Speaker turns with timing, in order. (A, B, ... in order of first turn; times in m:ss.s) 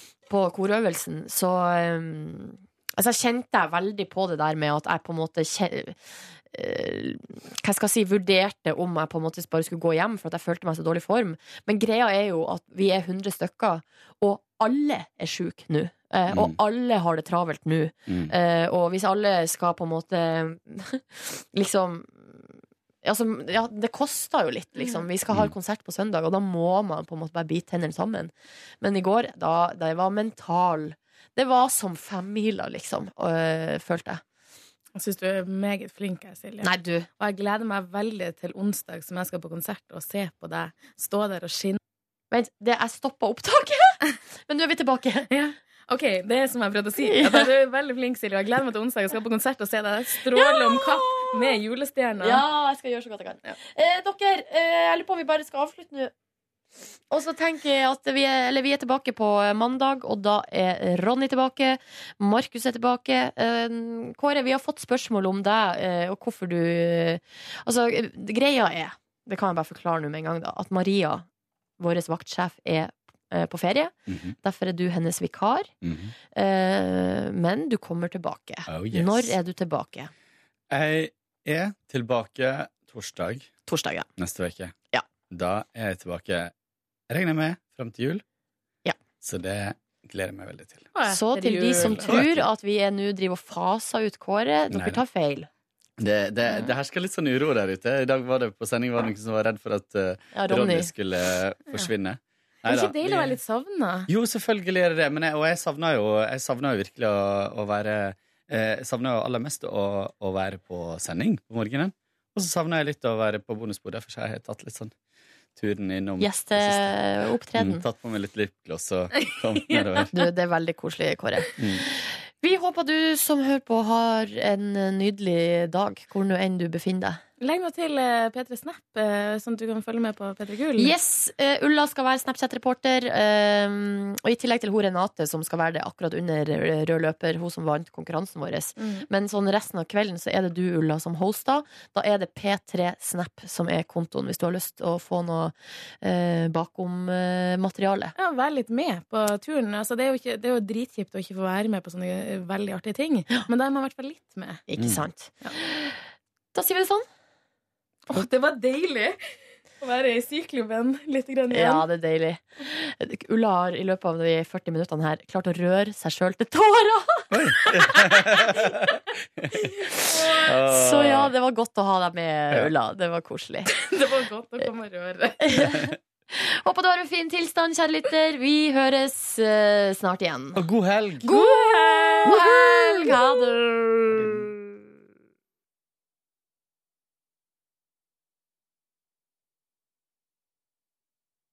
0:00.3-0:22.5 A
0:16.3-0:16.6 B
0:18.1-0:18.3 B
0:23.0-0:34.2 A
0:34.9-0:41.8 C
0:36.6-0:37.1 A
0:42.3-0:45.3 A
0:45.3-0:52.4 C
0:47.0-0:47.5 A
0:50.3-0:51.6 A
0:52.2-0:56.1 A
0:57.1-1:11.3 A
1:11.8-1:15.7 A
1:14.1-1:14.4 B
1:15.8-1:16.1 B
1:16.3-1:20.1 A
1:18.7-1:19.4 B
1:20.7-1:23.5 B
1:23.7-1:24.1 A
1:24.2-1:24.7 B
1:25.3-1:26.5 B
1:27.1-1:28.2 B
1:29.2-1:30.9 B
1:30.9-1:32.2 C
1:31.1-1:35.5 A
1:31.8-1:32.5 B
1:34.7-1:35.0 B
1:36.0-1:43.4 B
1:40.3-1:40.9 A
1:42.6-1:44.1 C
1:44.1-1:54.9 B
1:55.6-1:57.0 B
1:56.2-1:57.8 A
1:57.6-2:00.1 B
1:59.2-2:00.1 C
2:00.1-2:07.2 A
2:01.6-2:01.8 B
2:07.4-2:10.9 C
2:10.8-2:28.1 A
2:18.8-2:19.1 C
2:28.2-2:34.6 C
2:34.7-2:36.0 A
2:36.5-2:37.1 A
2:38.1-2:39.2 C
2:39.8-2:41.9 C
2:41.5-2:47.3 A
2:47.3-2:48.5 B
2:49.4-2:49.7 B
2:49.9-2:50.5 C
2:50.5-2:51.3 B
2:50.5-2:53.7 A
2:53.7-2:55.7 C
2:55.4-2:55.8 A
2:56.3-3:00.6 A
3:00.6-3:01.3 B
3:01.2-3:04.5 A
3:01.2-3:03.4 C
3:04.2-3:04.5 B